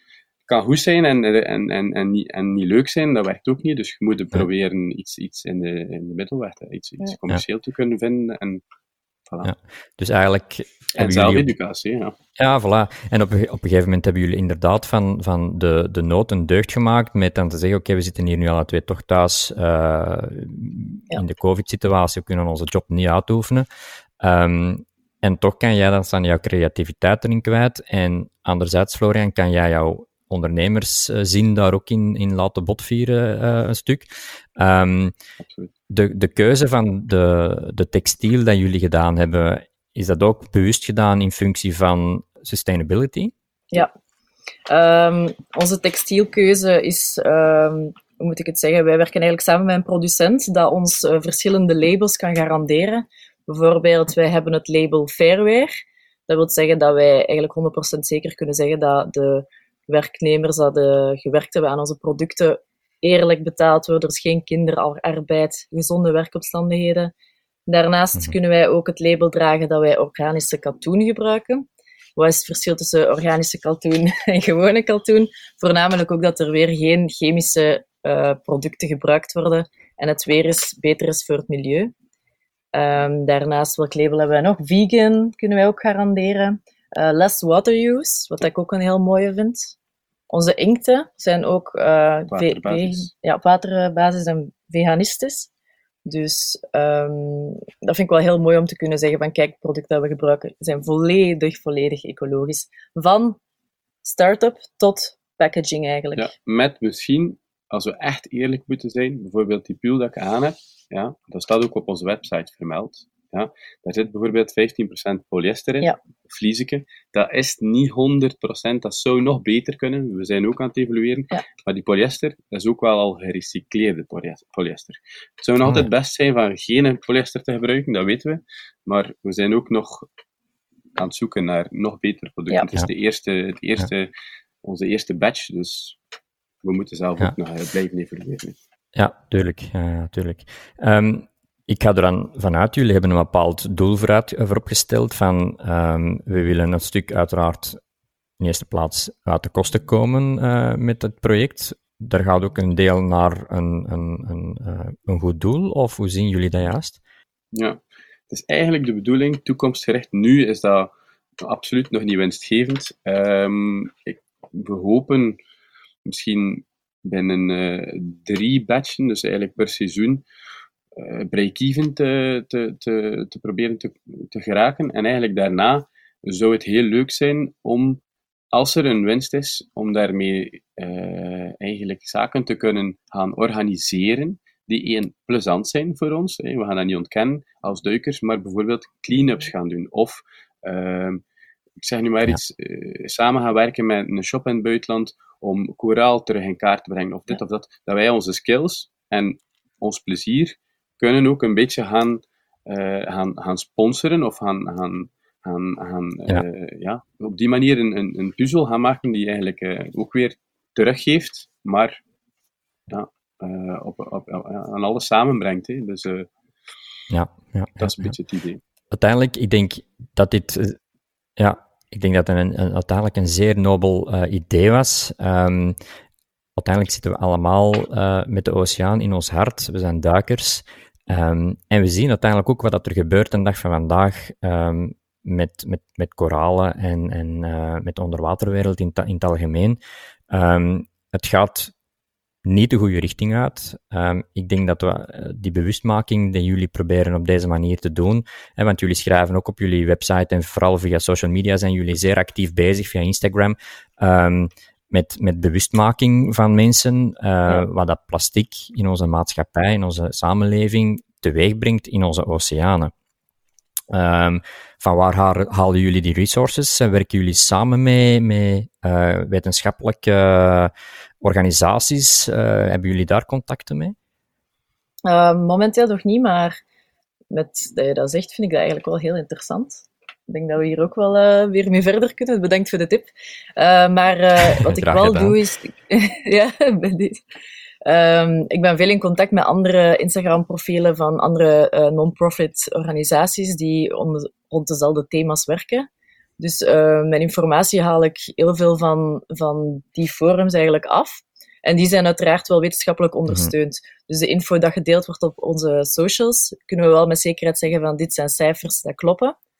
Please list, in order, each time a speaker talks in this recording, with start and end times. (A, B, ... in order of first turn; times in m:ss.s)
0:00.5-0:08.6 A
0:09.4-0:11.5 B
0:11.0-0:12.1 A
0:12.4-0:23.6 B
0:24.2-0:35.1 B
0:35.4-0:35.7 A
0:35.9-0:43.3 B
0:44.7-0:55.7 C
0:56.3-1:07.1 C
1:07.7-1:21.9 C
1:22.7-1:29.7 C
1:30.3-1:35.5 C
1:32.3-1:33.1 A
1:36.0-1:43.4 C
1:44.0-1:46.3 C
1:46.2-2:10.0 A
2:05.6-2:05.9 B
2:11.0-2:14.1 A
2:14.6-2:16.0 A
2:16.6-2:18.6 A
2:18.9-2:27.8 B
2:28.4-2:37.0 B
2:37.5-2:45.4 A
2:46.0-2:50.2 A
2:51.0-2:58.0 A
2:58.5-3:11.2 A
3:11.8-3:32.0 A
3:32.9-3:36.3 A
3:37.1-3:38.1 B
3:37.8-3:38.6 A
3:38.9-3:40.8 B
3:41.4-3:45.8 B
3:46.6-3:59.8 B
4:00.3-4:01.7 B
4:02.4-4:22.9 B
4:23.9-4:33.9 B
4:35.0-4:36.6 C
4:37.3-4:47.2 C
4:44.5-4:45.4 B
4:47.8-4:55.9 C
4:56.4-5:09.4 C